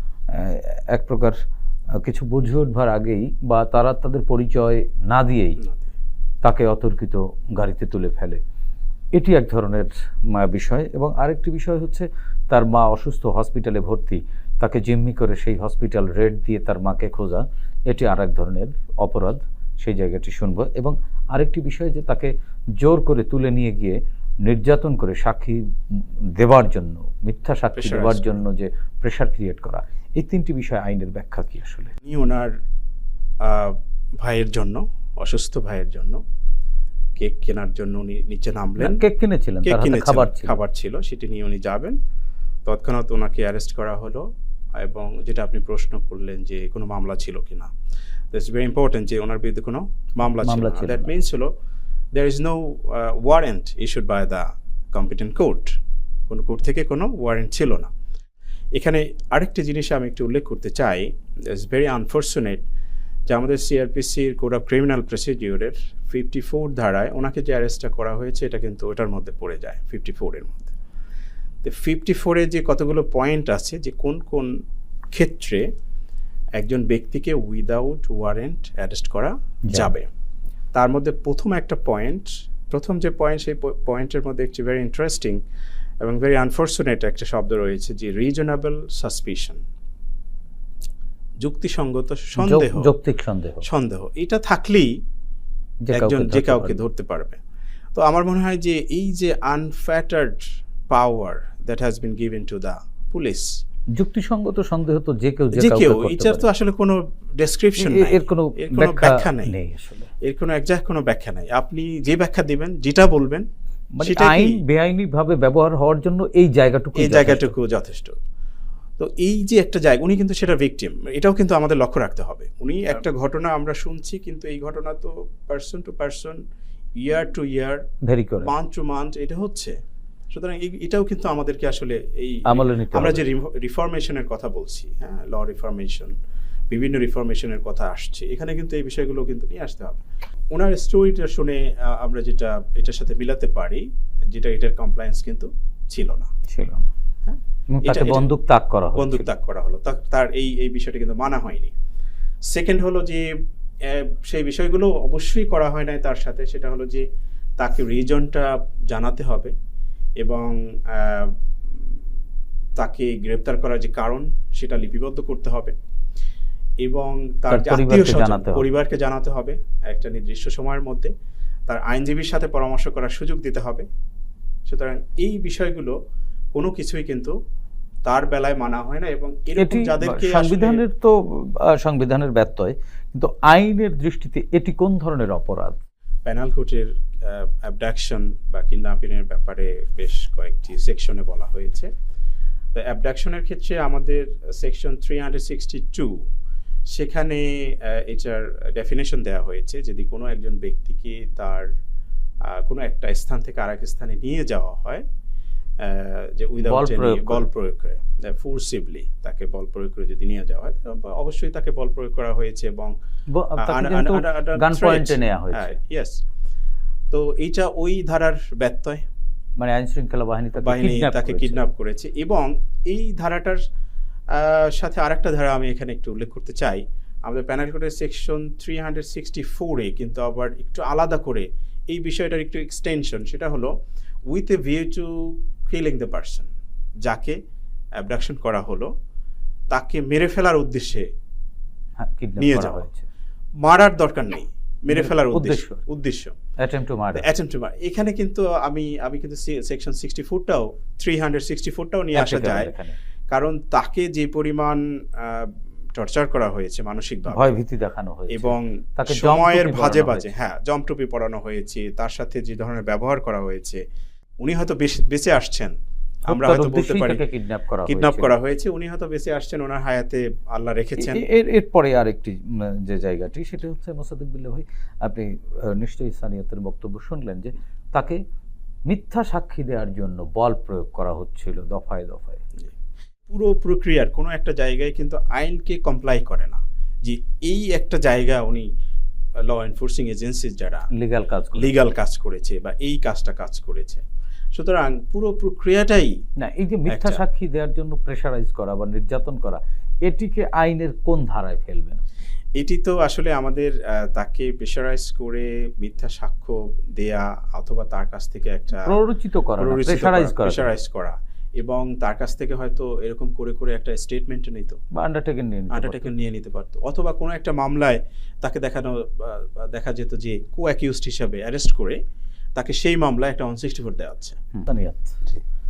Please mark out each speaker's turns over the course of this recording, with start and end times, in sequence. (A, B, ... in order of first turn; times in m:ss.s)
0:00.3-0:01.4 A
0:02.0-0:05.6 A
0:05.6-0:05.9 B
0:06.4-0:08.4 A
0:09.1-0:31.9 A
0:27.7-0:28.4 B
0:32.0-0:32.5 B
0:33.4-0:36.2 B
0:37.2-0:39.0 B
0:38.8-0:40.6 A
0:39.6-0:42.0 B
0:42.6-0:44.2 B
0:44.8-0:47.7 B
0:48.3-0:51.5 B
0:50.4-0:51.1 A
0:52.1-0:55.7 B
0:56.3-0:57.9 B
0:58.8-1:02.6 B
1:03.3-1:10.7 B
1:11.6-1:14.5 B
1:15.1-1:15.6 B
1:16.6-1:20.1 B
1:20.7-1:25.4 B
1:26.0-1:29.6 B
1:31.4-1:32.9 B
1:32.4-1:33.6 A
1:33.6-1:34.9 B
1:35.8-1:36.8 A
1:35.9-1:37.4 B
1:37.9-1:43.5 B
1:43.9-1:46.4 A
1:45.5-1:49.5 B
1:47.8-1:50.1 A
1:50.2-1:53.5 B
1:54.0-1:57.5 A
1:54.0-1:54.6 B
1:56.9-1:58.1 B
1:59.0-2:06.4 B
2:07.0-2:07.8 B
2:08.0-2:08.5 A
2:08.4-2:09.7 B
2:10.3-2:16.1 B
2:12.5-2:13.2 A
2:16.7-2:26.3 B
2:26.5-2:26.9 A
2:27.2-2:28.3 B
2:27.8-2:29.3 A
2:28.9-2:31.7 B
2:32.5-2:33.3 B
2:33.9-2:37.0 B
2:37.6-2:39.5 B
2:40.2-2:41.3 B
2:42.8-2:45.7 B
2:46.8-2:51.1 B
2:47.5-2:48.6 A
2:51.7-2:53.8 B
2:54.6-2:56.0 B
2:56.5-2:57.3 B
2:58.0-3:00.8 B
2:59.6-3:05.8 A
3:06.2-3:11.9 B
3:12.7-3:16.1 B
3:16.9-3:21.7 B
3:22.4-3:25.0 B
3:25.8-3:33.0 B
3:26.6-3:27.5 A
3:33.3-3:35.8 A
3:33.6-3:36.2 B
3:37.1-3:39.0 B
3:39.6-3:41.6 A
3:40.6-3:43.6 B
3:44.3-3:53.7 B
3:54.3-3:56.5 B
3:57.0-3:57.4 B
3:58.0-3:58.9 B
3:59.7-4:01.1 B
4:02.0-4:03.0 A
4:02.4-4:02.8 B
4:03.6-4:06.3 B
4:04.9-4:05.8 A
4:06.6-4:07.2 A
4:07.1-4:12.7 B
4:12.1-4:13.0 A
4:13.3-4:17.6 B
4:17.3-4:20.3 A
4:18.3-4:23.8 B
4:24.4-4:25.7 B
4:26.3-4:28.3 A
4:26.3-4:27.2 B
4:27.9-4:31.2 B
4:31.0-4:38.2 A
4:38.9-4:42.4 A
4:43.3-4:48.7 B
4:49.4-4:50.9 B
4:50.9-4:51.7 A
4:51.5-4:56.2 B
4:56.4-5:02.0 A
4:56.9-4:57.2 B
5:02.6-5:09.0 B
5:08.8-5:10.7 A
5:09.6-5:14.8 B
5:14.9-5:16.1 A
5:15.7-5:22.0 B
5:22.6-5:24.4 B
5:24.5-5:25.4 A